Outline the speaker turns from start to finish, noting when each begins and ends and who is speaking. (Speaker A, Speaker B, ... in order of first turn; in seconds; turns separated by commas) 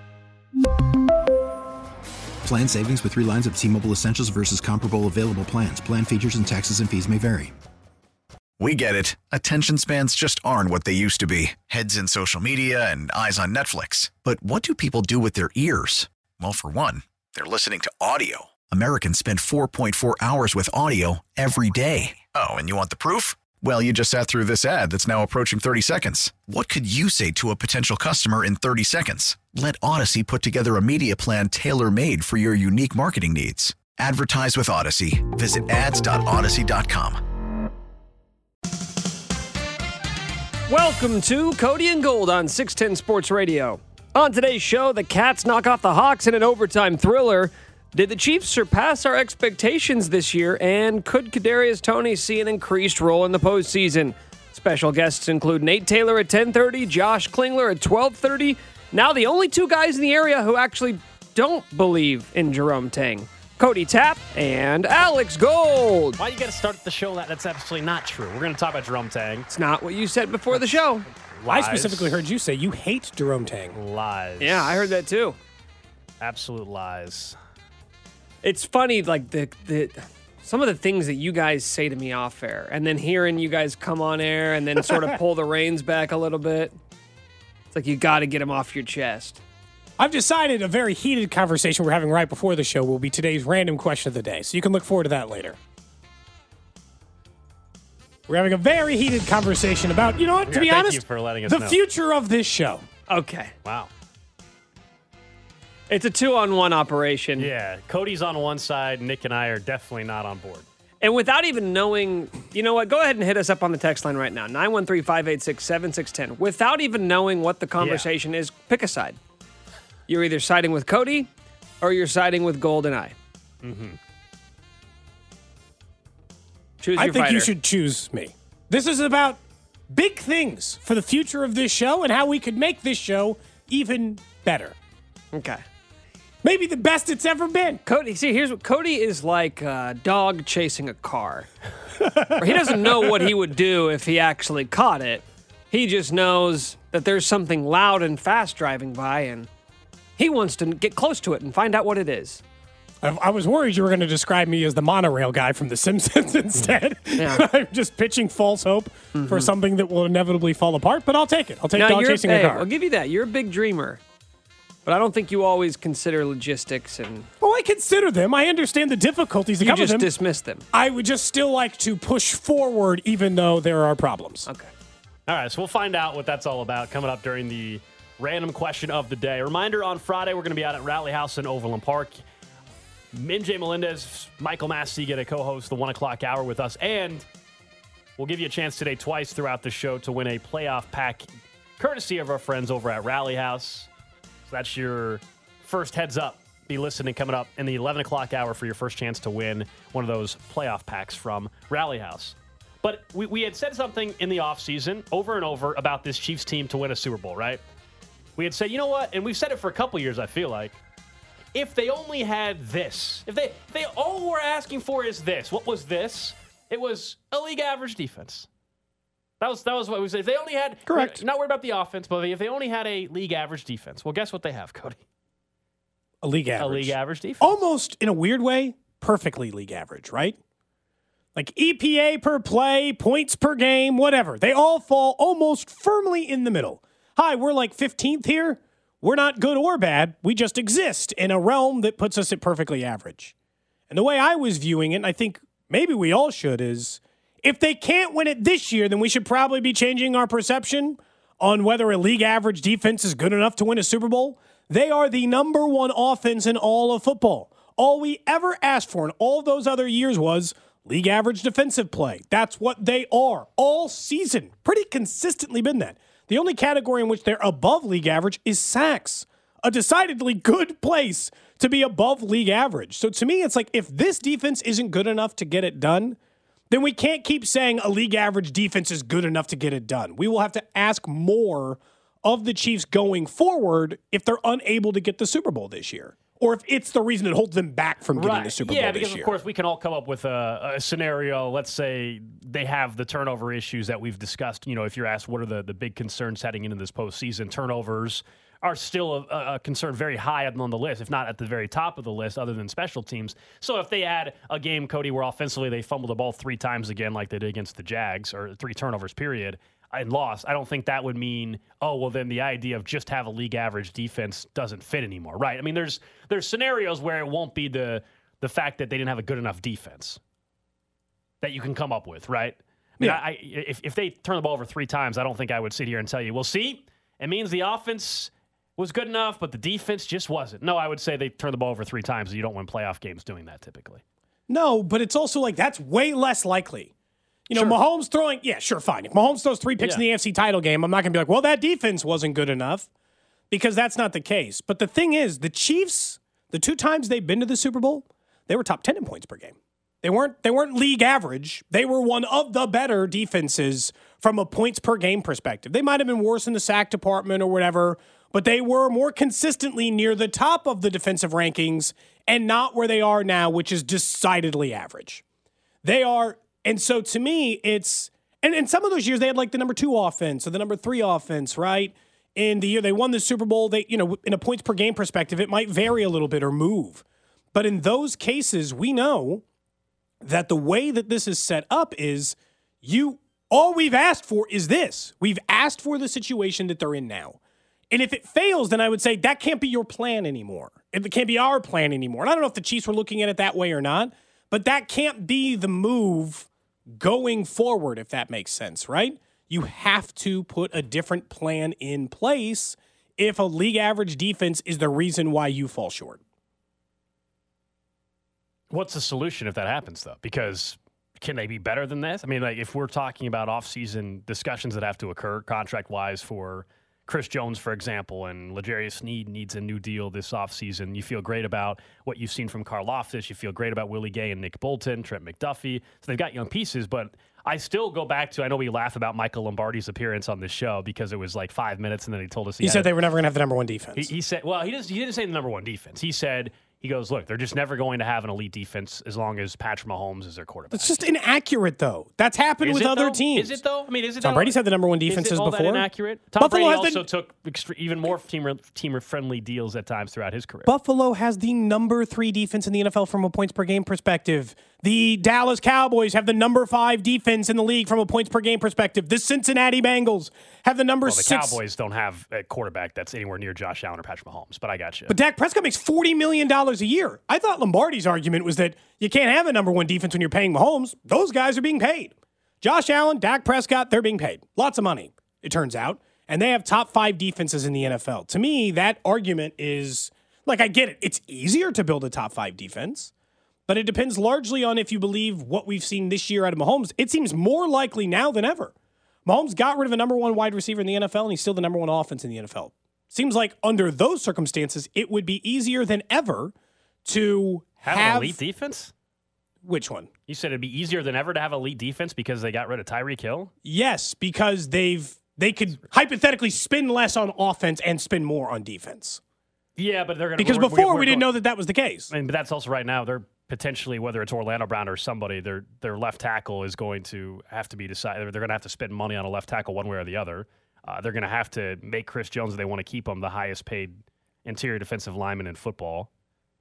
Speaker A: 2.4-7.5, Speaker B: 8.6-37.2, Speaker C: 40.7-66.2, Speaker D: 66.2-69.5, Speaker C: 69.5-71.1, Speaker D: 71.2-72.2, Speaker E: 71.5-73.8, Speaker D: 73.8-74.9, Speaker C: 74.4-75.4, Speaker D: 76.2-77.4, Speaker C: 78.4-86.8, Speaker C: 87.7-89.4, Speaker E: 90.0-95.6, Speaker E: 98.3-102.8, Speaker D: 100.5-101.8, Speaker C: 103.1-103.5, Speaker D: 103.6-103.9, Speaker C: 105.9-107.5, Speaker D: 107.4-110.7, Speaker C: 111.0-119.2, Speaker D: 117.8-118.1, Speaker C: 120.1-121.3, Speaker C: 121.8-123.2, Speaker D: 123.6-124.0, Speaker C: 126.8-127.5, Speaker E: 127.0-134.8, Speaker C: 135.3-135.6, Speaker E: 136.4-137.8, Speaker C: 137.9-141.5, Speaker E: 142.0-143.2, Speaker C: 142.4-149.5, Speaker C: 150.2-152.4, Speaker E: 153.0-162.7, Speaker C: 157.2-157.4, Speaker C: 159.1-159.5, Speaker C: 161.8-164.0, Speaker C: 164.9-167.3, Speaker E: 167.4-170.1, Speaker C: 169.6-170.7, Speaker E: 170.7-174.5, Speaker D: 175.3-182.2, Speaker D: 183.1-187.3, Speaker D: 188.2-191.3, Speaker D: 191.8-193.9, Speaker D: 194.5-207.6, Speaker D: 208.4-210.8, Speaker D: 211.5-218.5, Speaker D: 219.4-225.0, Speaker E: 220.9-221.2, Speaker E: 226.2-230.4, Speaker D: 226.6-227.6, Speaker E: 231.4-243.3, Speaker E: 243.9-276.2, Speaker E: 276.7-289.3, Speaker D: 288.1-320.2, Speaker D: 321.4-334.0, Speaker E: 334.5-336.9, Speaker E: 337.5-342.9, Speaker D: 337.5-337.8, Speaker E: 343.5-365.2, Speaker E: 365.8-379.4, Speaker E: 380.2-387.4, Speaker E: 387.9-406.2, Speaker D: 408.7-432.9, Speaker E: 432.6-434.1, Speaker D: 433.9-440.9, Speaker E: 440.7-443.6, Speaker D: 442.6-450.7, Speaker E: 444.2-445.9, Speaker E: 446.4-447.0, Speaker E: 450.7-461.6, Speaker D: 461.1-465.1, Speaker E: 465.1-483.1, Speaker E: 483.7-488.7, Speaker E: 489.3-496.5, Speaker E: 497.1-498.4, Speaker D: 497.9-498.9, Speaker E: 499.6-500.1, Speaker D: 500.3-503.5, Speaker E: 503.6-509.2, Speaker D: 509.8-511.3, Speaker E: 510.4-512.1, Speaker D: 512.1-526.1